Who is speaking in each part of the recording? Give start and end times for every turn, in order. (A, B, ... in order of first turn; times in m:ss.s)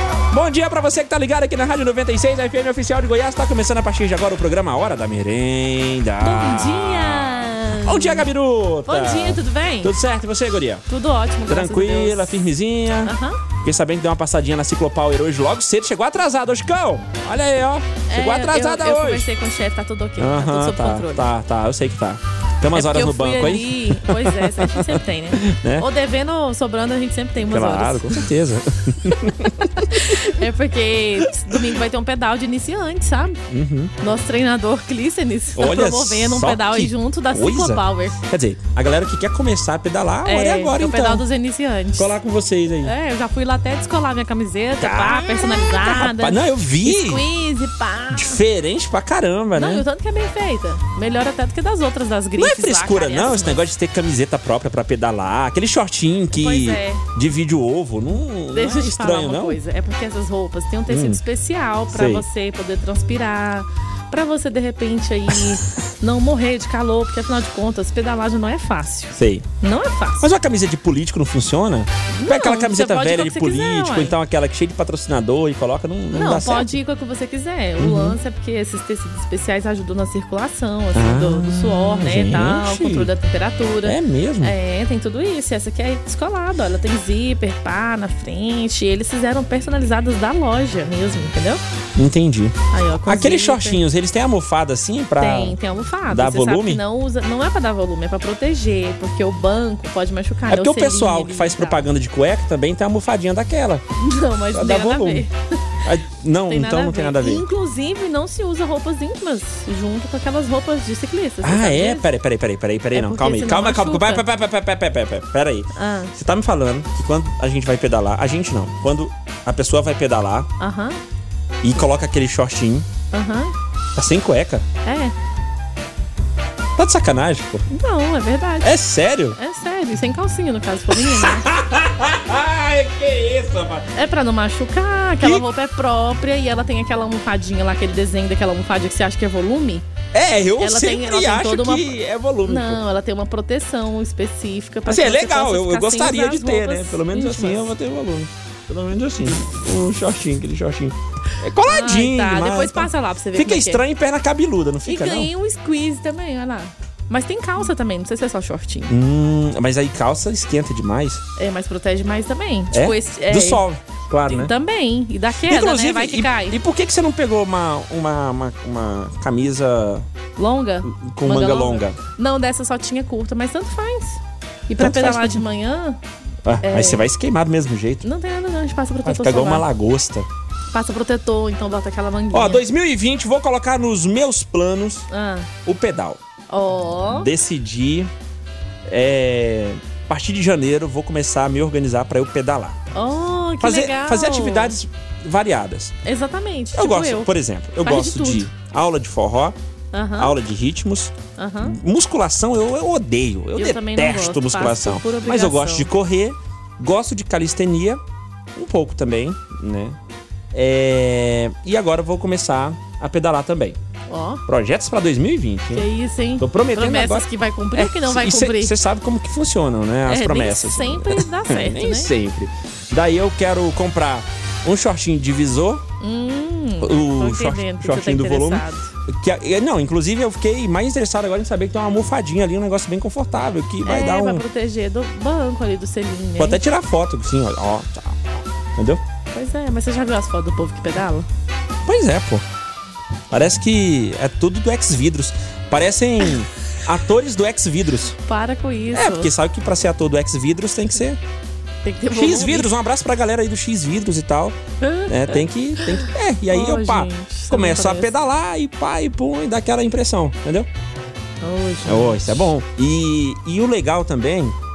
0:00.3-0:07.3 A
0:06.2-0:08.3 B
0:07.8-0:10.8 A
0:08.9-0:09.9 B
0:10.9-0:12.4 B
0:11.5-0:13.1 A
0:13.0-0:13.4 B
0:13.6-0:19.3 A
0:18.1-0:21.3 B
0:20.2-0:25.9 A
0:22.7-0:28.1 B
0:27.5-0:30.1 A
0:29.9-0:33.4 B
0:33.5-0:33.9 A
0:34.0-0:38.2 B
0:35.6-0:41.2 A
0:40.2-0:42.1 B
0:42.0-0:42.9 A
0:42.8-0:48.4 B
0:44.8-0:47.2 A
0:48.1-0:49.8 A
0:49.6-0:53.6 B
0:52.4-0:59.6 A
0:56.3-0:57.0 B
0:58.5-1:10.3 B
1:00.9-1:01.2 A
1:01.9-1:02.2 A
1:09.2-1:09.5 A
1:10.2-1:16.7 A
1:12.1-1:14.1 B
1:16.1-1:31.6 B
1:17.8-1:18.2 A
1:20.9-1:23.1 A
1:23.8-1:24.5 A
1:32.0-1:35.6 A
1:32.7-1:33.8 B
1:35.2-1:41.8 B
1:36.1-1:36.8 A
1:40.5-1:43.8 A
1:44.0-1:45.3 B
1:44.5-1:45.2 A
1:45.8-1:47.4 A
1:46.5-1:52.1 B
1:51.4-2:00.5 A
1:53.0-1:54.3 B
1:55.8-1:56.1 B
2:00.6-2:01.0 B
2:01.6-2:02.9 A
2:03.1-2:03.5 B
2:04.0-2:04.7 A
2:04.8-2:05.1 B
2:06.8-2:07.7 A
2:07.7-2:08.7 B
2:08.6-2:09.4 A
2:09.4-2:11.5 B
2:11.0-2:13.9 A
2:14.0-2:19.9 B
2:20.1-2:22.8 A
2:20.6-2:21.9 B
2:22.5-2:27.7 B
2:24.9-2:35.3 A
2:31.7-2:33.8 B
2:34.9-2:38.9 B
2:38.9-2:41.2 A
2:41.4-2:43.6 B
2:42.7-2:44.5 A
2:44.3-2:46.6 B
2:45.5-2:50.1 A
2:50.4-2:56.0 B
2:50.8-2:52.0 A
2:54.8-2:55.4 A
2:56.4-2:58.0 A
2:56.6-2:57.0 B
2:58.0-2:59.6 B
2:59.0-3:00.3 A
3:00.7-3:02.6 B
3:02.3-3:05.1 A
3:05.1-3:05.5 B
3:05.6-3:06.2 A
3:06.5-3:07.3 B
3:07.2-3:08.1 A
3:08.9-3:12.9 A
3:12.9-3:14.7 B
3:13.6-3:15.9 A
3:16.0-3:17.3 B
3:16.8-3:19.6 A
3:17.8-3:18.5 B
3:19.9-3:20.3 B
3:20.2-3:28.0 A
3:21.4-3:21.8 B
3:23.6-3:25.9 B
3:28.6-3:30.0 A
3:30.5-3:33.8 A
3:34.1-3:34.4 B
3:34.5-3:35.9 A
3:35.7-3:38.7 B
3:36.4-3:45.8 A
3:40.1-3:42.1 B
3:46.0-3:48.9 B
3:46.8-3:54.4 A
3:53.9-3:56.6 B
3:56.4-3:59.0 A
3:59.3-4:01.3 B
4:01.8-4:02.4 A
4:03.3-4:08.2 A
4:08.2-4:09.3 B
4:08.9-4:11.2 A
4:11.8-4:12.7 B
4:12.1-4:14.6 A
4:14.8-4:15.4 B
4:15.1-4:20.7 A
4:16.5-4:18.1 B
4:21.4-4:22.5 B
4:21.9-4:24.6 A